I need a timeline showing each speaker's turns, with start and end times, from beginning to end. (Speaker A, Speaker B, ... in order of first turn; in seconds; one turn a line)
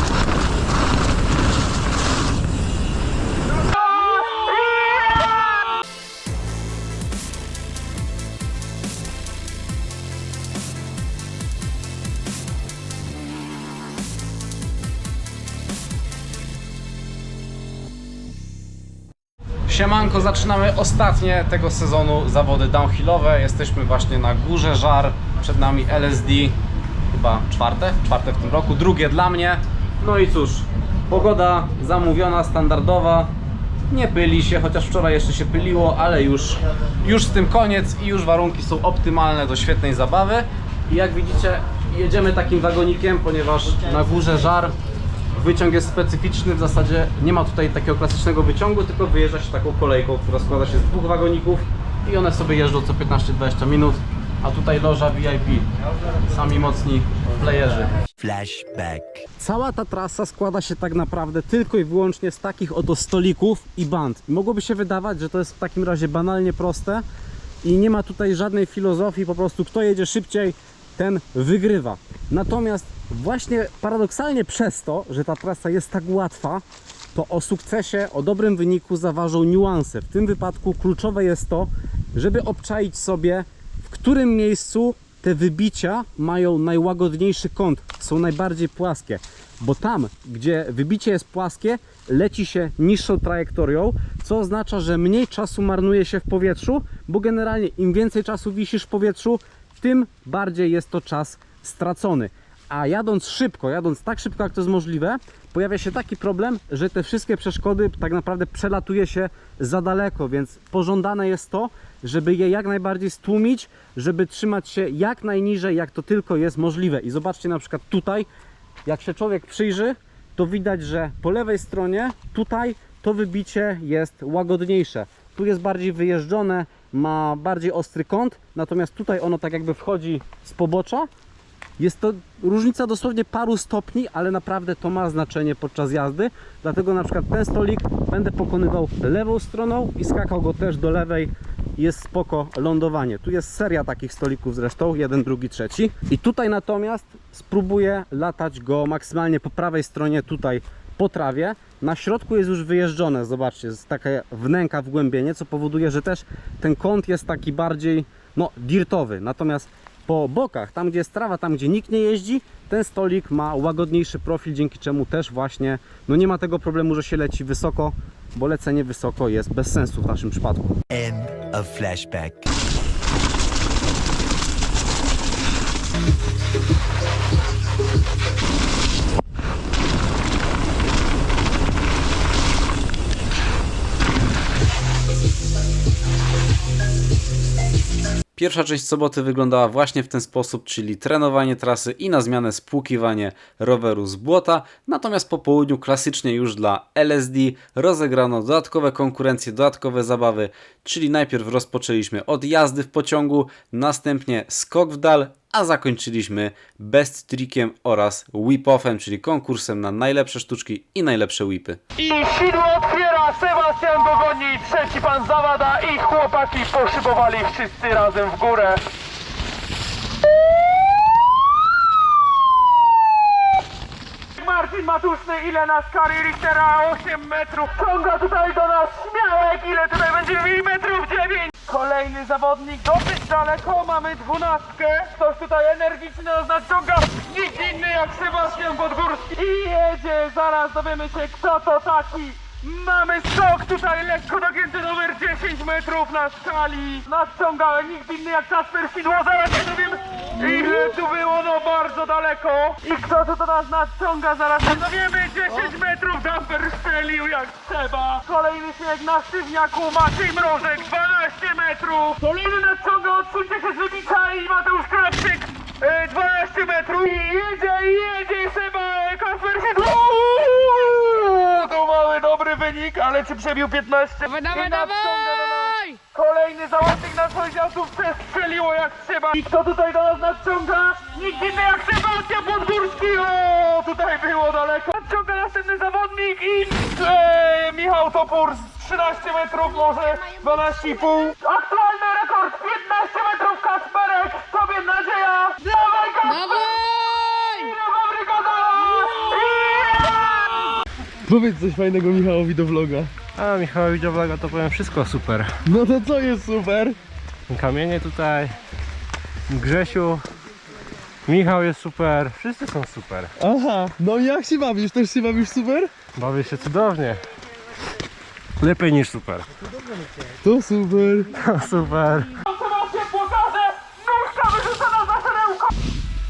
Speaker A: 3.7-5.6
Speaker B: 19.7-26.5
Speaker B: 27.1-33.3
Speaker B: 33.9-44.7
Speaker B: 45.3-55.7
Speaker B: 56.3-57.9
Speaker C: 58.1-59.2
Speaker B: 59.4-67.0
Speaker B: 67.6-76.6
Speaker B: 77.1-118.3
Speaker B: 118.8-131.1
Speaker B: 131.8-170.8
Speaker C: 170.9-172.5
Speaker B: 188.3-211.8
Speaker A: 212.0-218.8
Speaker A: 224.4-300.7
Speaker D: 301.2-303.1
Speaker E: 303.3-305.5
Speaker D: 305.6-307.0
Speaker E: 307.5-308.6
Speaker E: 309.5-310.2
Speaker E: 311.2-313.3
Speaker D: 313.4-315.9
Speaker E: 316.1-317.2
Speaker E: 318.6-319.5
Speaker D: 320.4-321.4
Speaker E: 321.4-322.3
Speaker A: 322.4-325.7